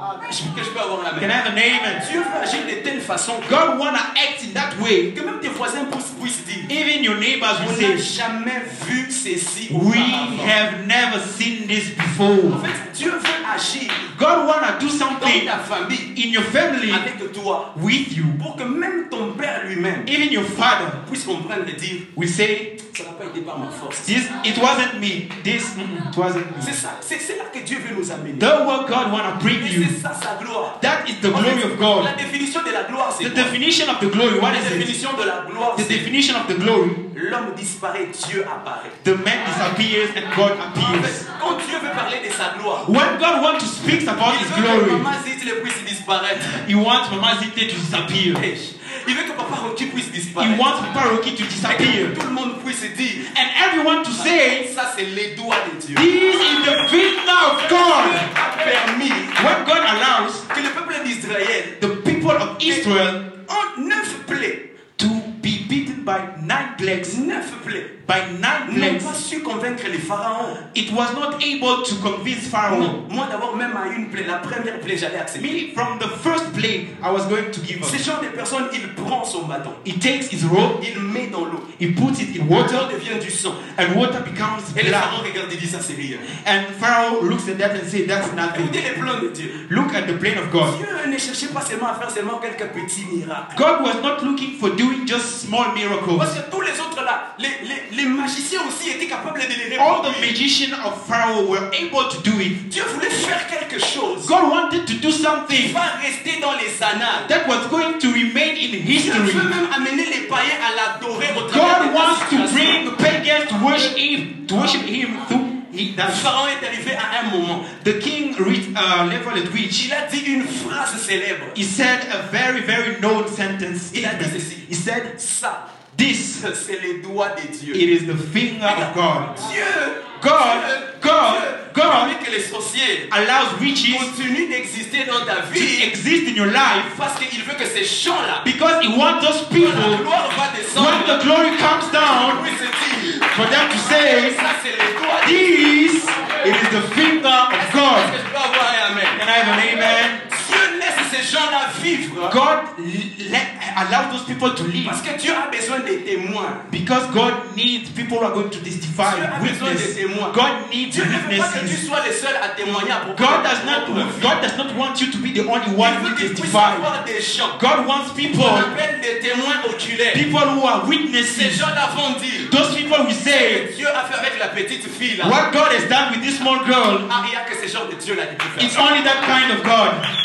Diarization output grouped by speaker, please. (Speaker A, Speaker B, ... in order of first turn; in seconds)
Speaker A: 0.2-1.3, 2.0-3.6, 5.1-6.7, 7.5-10.5, 12.5-14.1, 15.2-16.1, 16.9-17.7, 18.4-20.1, 21.0-22.1, 22.9-24.1, 26.6-28.5, 29.6-33.5, 34.5-36.1, 37.1-39.0, 40.8-42.9, 44.2-46.5, 48.3-50.6, 51.7-53.3, 54.2-56.1, 57.6-59.4, 60.5-61.8, 62.6-62.9, 63.5-64.6, 67.0-67.9, 68.7-70.6, 72.7-75.5, 77.8-79.8, 80.8-81.7, 82.4-83.7, 84.7-86.3, 88.5-89.6, 90.6-93.6, 96.1-100.3, 102.7-104.3, 105.5-107.3, 108.9-112.9, 116.0-117.7, 119.7-121.6, 123.9-125.7, 126.3-127.8, 128.6-133.1, 133.9-135.9, 136.9-138.4, 139.6-141.2, 142.0-145.6, 146.2-146.5, 147.6-149.3, 150.1-152.4, 154.8-156.7, 159.0-164.3, 165.8-167.6, 168.2-170.2, 171.3-172.5, 173.2-175.4, 177.1-178.8
Speaker B: 1.2-2.0, 3.5-5.1, 6.7-8.1, 9.7-12.7, 14.1-15.5, 16.1-17.1, 17.7-18.4, 20.1-21.0, 22.1-22.8, 24.0-26.8, 28.4-29.9, 30.8-32.1, 33.2-34.9, 35.8-37.0, 39.0-41.2, 42.8-45.0, 46.4-48.4, 50.4-52.2, 53.3-54.6, 55.9-58.3, 59.4-60.5, 61.8-63.2, 65.0-67.2, 68.0-69.2, 70.6-73.0, 75.4-78.0, 79.8-80.8, 81.8-82.9, 83.6-85.2, 86.3-88.8, 89.6-90.7, 93.5-96.4, 99.8-102.6, 104.2-105.8, 107.3-109.5, 111.5-116.3, 117.7-119.9, 121.5-125.1, 125.9-126.4, 127.7-129.4, 130.2-132.2, 133.1-134.1, 135.5-136.9, 138.4-140.0, 140.7-142.4, 143.2-144.4, 145.2-148.1, 149.1-150.2, 152.3-155.0, 156.7-161.8, 163.1-166.9, 167.5-168.7, 170.1-171.7, 172.4-173.6, 175.2-177.1, 178.6-180.0